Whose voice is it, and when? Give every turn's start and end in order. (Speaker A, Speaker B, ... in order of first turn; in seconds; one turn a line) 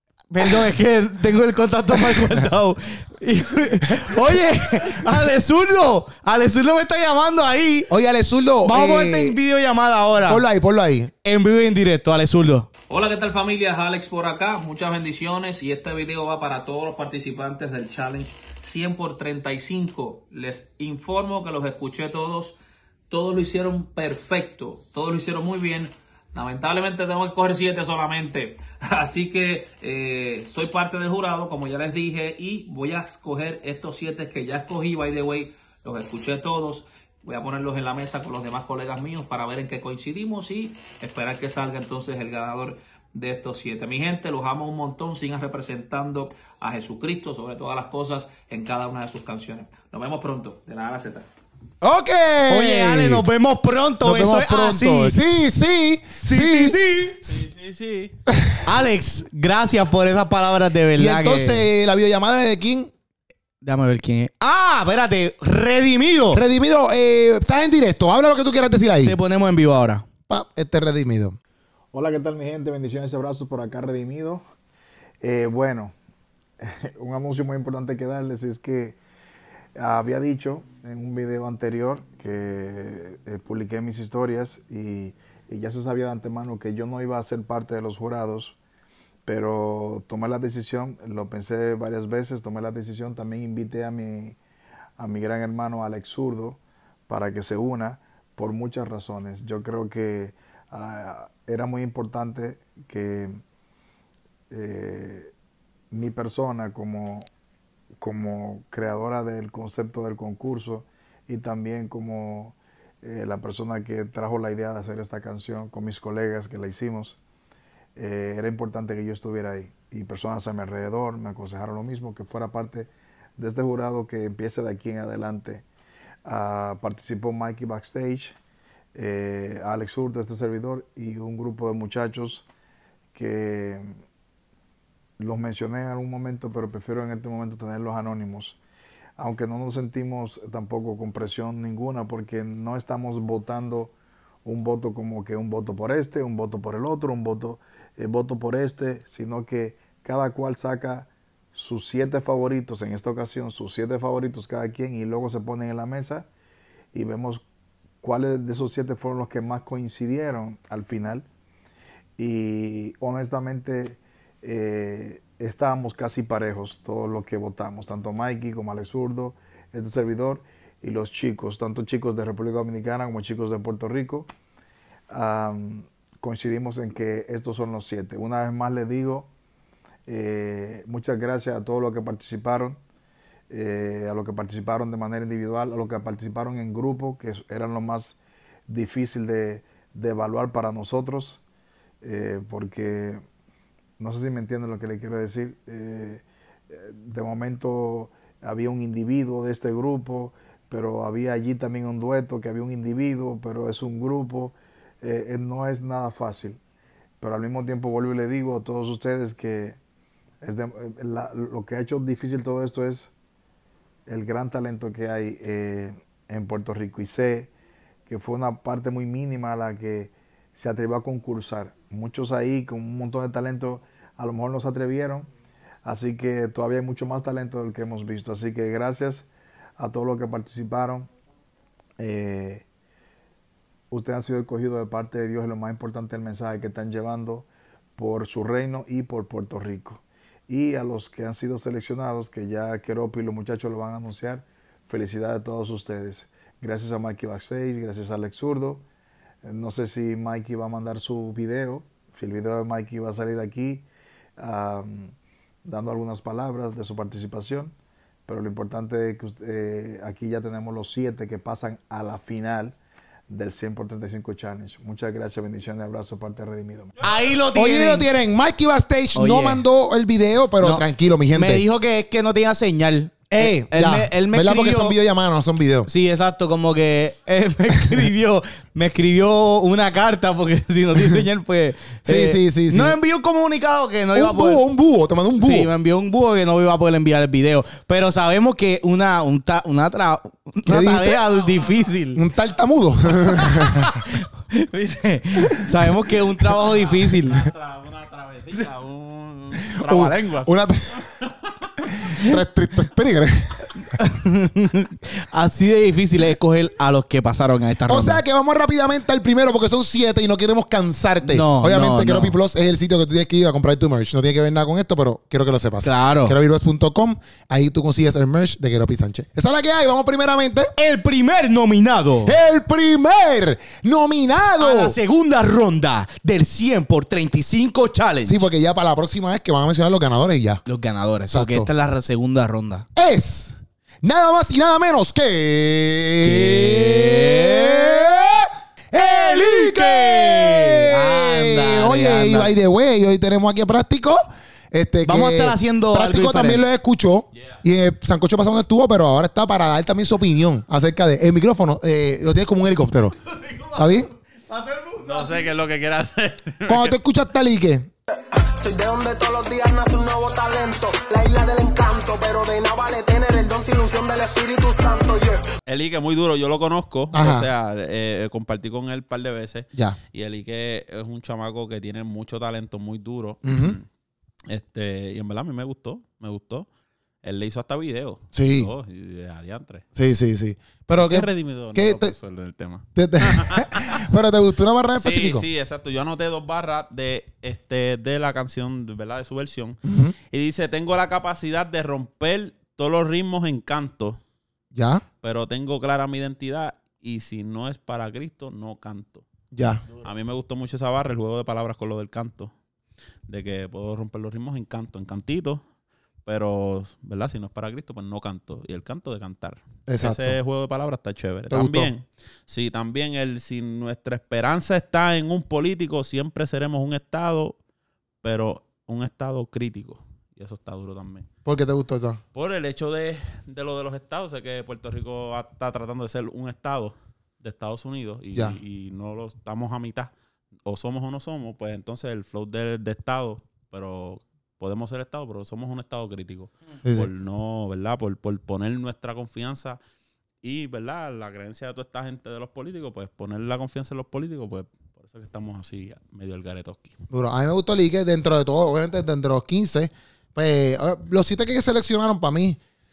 Speaker A: 0.3-7.9
Speaker B: 1.9-2.5
Speaker B: 3.9-4.4
Speaker B: 7.9-9.4
Speaker A: 8.6-10.4
Speaker B: 10.2-11.1
Speaker A: 11.2-12.7
Speaker C: 12.9-22.6
Speaker C: 23.1-51.3
Speaker B: 51.8-53.2
Speaker A: 52.5-55.2
Speaker B: 54.0-56.8
Speaker A: 56.1-57.2
Speaker D: 57.2-58.1
Speaker A: 58.6-61.6
Speaker B: 60.9-62.9
Speaker A: 63.6-66.4
Speaker B: 66.3-69.2
Speaker A: 69.0-70.0
Speaker B: 70.3-71.4
Speaker E: 71.9-74.4
Speaker E: 75.2-75.9
Speaker E: 76.6-79.0
Speaker E: 79.8-88.6
Speaker E: 89.2-94.4
Speaker E: 95.0-103.4
Speaker E: 104.5-105.3
Speaker E: 105.9-107.3
Speaker E: 108.0-117.2
Speaker E: 118.0-125.6
Speaker E: 126.2-128.3
Speaker E: 128.9-132.5
Speaker E: 133.1-133.9
Speaker E: 135.2-138.6
Speaker E: 139.2-143.9
Speaker E: 144.4-156.3
Speaker E: 156.9-157.4
Speaker E: 158.0-161.2
Speaker E: 162.2-174.3
Speaker E: 175.1-179.3
Speaker E: 180.1-182.8
Speaker E: 183.5-188.2
Speaker E: 188.7-191.4
Speaker E: 192.0-193.2
Speaker E: 194.0-206.6
Speaker E: 207.2-209.8
Speaker E: 210.4-213.1
Speaker E: 214.1-217.5
Speaker E: 218.1-225.3
Speaker E: 225.8-231.1
Speaker E: 232.0-232.6
Speaker E: 233.9-248.8
Speaker E: 249.4-253.8
Speaker E: 254.4-255.1
Speaker E: 255.6-257.7
Speaker E: 258.2-262.8
Speaker E: 263.3-266.9
Speaker A: 267.0-268.1
Speaker B: 267.5-271.6
Speaker A: 269.1-269.6
Speaker A: 270.6-275.0
Speaker B: 273.3-275.9
Speaker A: 275.9-284.6
Speaker B: 281.0-281.2
Speaker B: 282.0-283.0
Speaker B: 284.1-285.7
Speaker A: 285.4-292.2
Speaker B: 290.7-291.2
Speaker D: 291.3-291.8
Speaker B: 292.1-294.0
Speaker A: 293.2-297.4
Speaker D: 296.6-301.9
Speaker B: 299.8-301.0
Speaker B: 302.0-303.7
Speaker A: 303.9-308.2
Speaker B: 307.9-320.7
Speaker A: 311.2-312.3
Speaker A: 315.8-316.4
Speaker A: 320.8-322.4
Speaker B: 322.2-324.9
Speaker A: 324.6-328.4
Speaker B: 328.2-330.6
Speaker A: 330.6-332.9
Speaker B: 331.3-331.7
Speaker B: 332.9-353.1
Speaker A: 336.2-338.2
Speaker A: 338.9-342.5
Speaker A: 345.0-346.6
Speaker A: 353.2-355.4
Speaker B: 353.8-354.1
Speaker D: 355.0-356.9
Speaker B: 356.7-357.9
Speaker F: 358.6-365.4
Speaker D: 365.6-373.8
Speaker B: 367.1-367.5
Speaker B: 373.4-373.8
Speaker D: 374.5-376.7
Speaker D: 377.2-379.8
Speaker B: 378.3-378.7
Speaker B: 379.9-382.1
Speaker D: 381.0-384.0
Speaker B: 382.9-385.4
Speaker D: 384.9-394.2
Speaker B: 389.8-390.1
Speaker B: 394.7-395.0
Speaker D: 395.2-399.2
Speaker B: 399.5-399.8
Speaker D: 399.9-402.5
Speaker D: 403.3-405.6
Speaker D: 406.2-417.6
Speaker B: 409.9-410.4
Speaker B: 411.5-411.9
Speaker D: 418.2-421.3
Speaker B: 421.4-422.2
Speaker D: 422.3-430.1
Speaker B: 428.3-428.6
Speaker D: 430.6-439.8
Speaker B: 436.8-437.1
Speaker D: 440.4-447.0
Speaker B: 447.1-452.6